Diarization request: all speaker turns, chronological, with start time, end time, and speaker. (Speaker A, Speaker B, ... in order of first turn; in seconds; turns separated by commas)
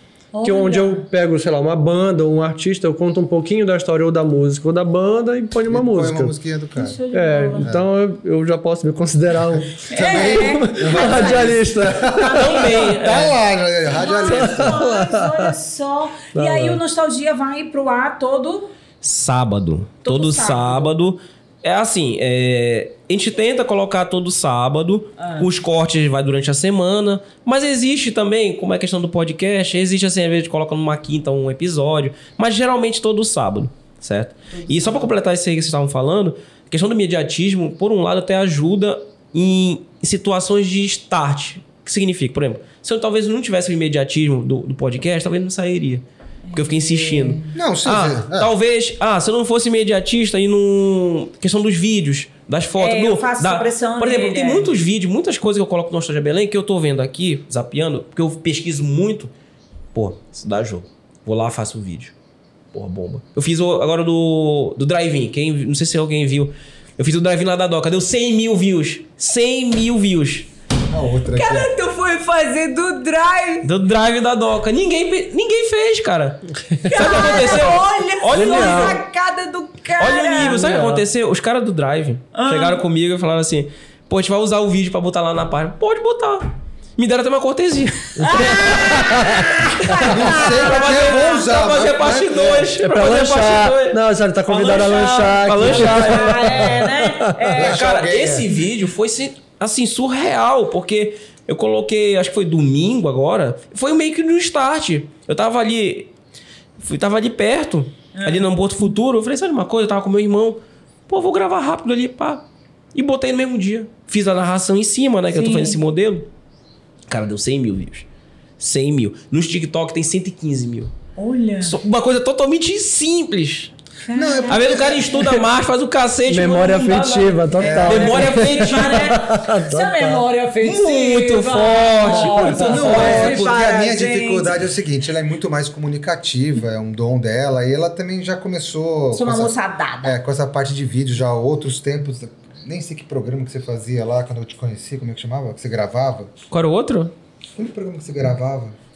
Speaker A: 0.3-1.0, Speaker B: 0.4-6.3, Speaker C: 5.7-7.0, Speaker A: 6.8-7.7, Speaker B: 7.1-12.7, Speaker A: 9.9-13.0, Speaker C: 9.9-14.8, Speaker D: 12.3-13.4, Speaker A: 13.8-18.7, Speaker B: 14.3-15.5, Speaker B: 16.3-16.8, Speaker D: 19.0-46.0, Speaker A: 20.1-20.9, Speaker A: 25.2-25.5, Speaker A: 34.5-35.1, Speaker A: 46.5-47.6, Speaker D: 46.5-59.3, Speaker C: 47.5-48.5, Speaker A: 52.8-54.7, Speaker D: 59.9-62.1, Speaker D: 62.7-70.5, Speaker C: 70.9-71.7, Speaker A: 71.3-73.7, Speaker D: 73.6-79.0, Speaker A: 76.9-80.8, Speaker B: 78.3-79.0, Speaker D: 80.0-96.8, Speaker B: 80.4-81.1, Speaker A: 82.3-82.8, Speaker B: 88.2-90.0, Speaker A: 88.3-91.3, Speaker C: 90.0-92.7, Speaker B: 92.8-97.5, Speaker A: 94.9-97.8, Speaker C: 97.5-98.5, Speaker D: 97.5-106.1, Speaker D: 106.8-116.3, Speaker A: 108.2-108.5, Speaker A: 115.3-115.8, Speaker D: 117.1-118.1, Speaker D: 118.6-120.9, Speaker A: 121.2-121.8, Speaker D: 121.6-123.7, Speaker A: 124.1-124.8, Speaker C: 124.1-125.3, Speaker D: 124.5-129.2, Speaker B: 126.3-130.3, Speaker C: 127.6-128.2, Speaker A: 127.6-134.6, Speaker D: 130.6-133.5, Speaker B: 132.0-133.3, Speaker C: 132.6-146.3, Speaker A: 139.1-140.2, Speaker D: 146.5-147.1, Speaker C: 147.6-148.8